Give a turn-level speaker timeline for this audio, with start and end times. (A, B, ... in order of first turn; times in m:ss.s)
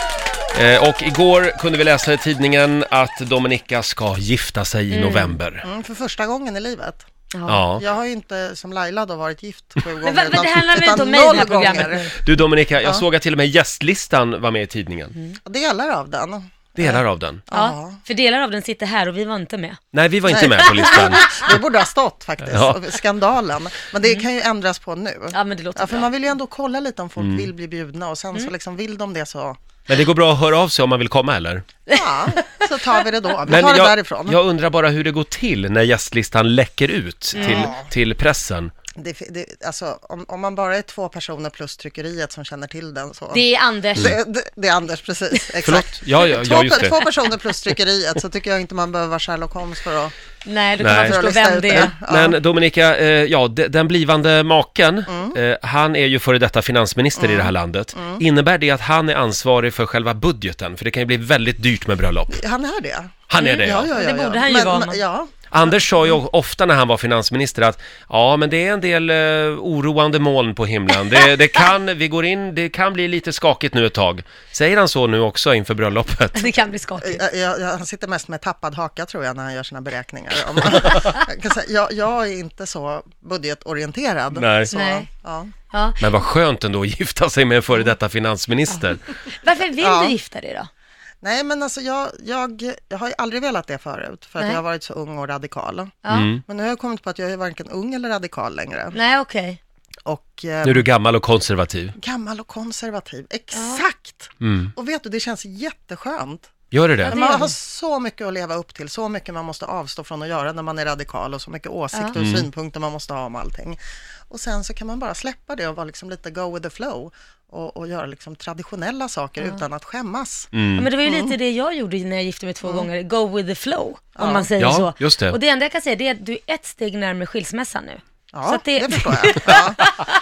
0:00.5-0:05.6 A
0:04.9-0:05.4 B
0:05.6-0:07.0 C
0:07.3-0:07.6 B
0:07.5-0:07.8 A
0:07.8-0:12.1 C
0:10.0-0:12.2 B
0:12.2-0:15.1 A
0:15.4-0:18.0 C
0:16.8-0:17.4 A
0:17.5-0:19.8 B
0:19.9-0:21.6 A
0:20.3-0:29.6 C
0:20.8-0:21.2 B
0:22.5-0:22.8 A
0:25.3-0:26.1 B
0:27.2-0:27.5 A
0:29.9-0:31.6 A
0:31.9-0:34.4 C
0:31.9-0:33.0 B
0:33.5-0:38.7 A
0:37.3-0:37.9 C
0:37.4-0:37.7 B
0:39.0-0:43.4 C
0:43.3-0:44.2 B
0:43.9-0:50.1 C
0:45.6-0:47.0 A
0:50.4-0:51.9 B
0:50.8-1:02.4 A
0:51.0-0:52.4 C
0:55.1-0:55.4 C
0:57.2-0:58.2 C
1:02.3-1:05.3 C
1:03.3-1:03.9 A
1:03.4-1:05.0 B
1:05.5-1:16.5 A
1:16.3-1:17.2 B
1:17.0-1:25.5 C
1:24.3-1:24.7 A
1:24.7-1:25.1 B
1:25.7-1:26.0 B
1:26.0-1:29.0 A
1:28.7-1:30.7 B
1:29.8-1:30.2 C
1:31.2-1:39.0 C
1:36.0-1:36.3 B
1:36.1-1:36.4 A
1:38.9-1:39.6 B
1:40.0-1:40.8 C
1:40.6-1:41.9 A
1:42.0-1:46.5 C
1:43.5-1:43.8 B
1:44.4-1:44.7 A
1:46.7-1:47.2 A
1:47.0-2:00.5 C
1:47.0-1:47.5 B
1:51.9-1:52.2 B
1:52.1-1:52.5 A
2:00.5-2:00.9 A
2:00.8-2:10.1 B
2:01.0-2:01.4 C
2:04.2-2:04.5 C
2:04.6-2:05.4 A
2:08.3-2:09.8 C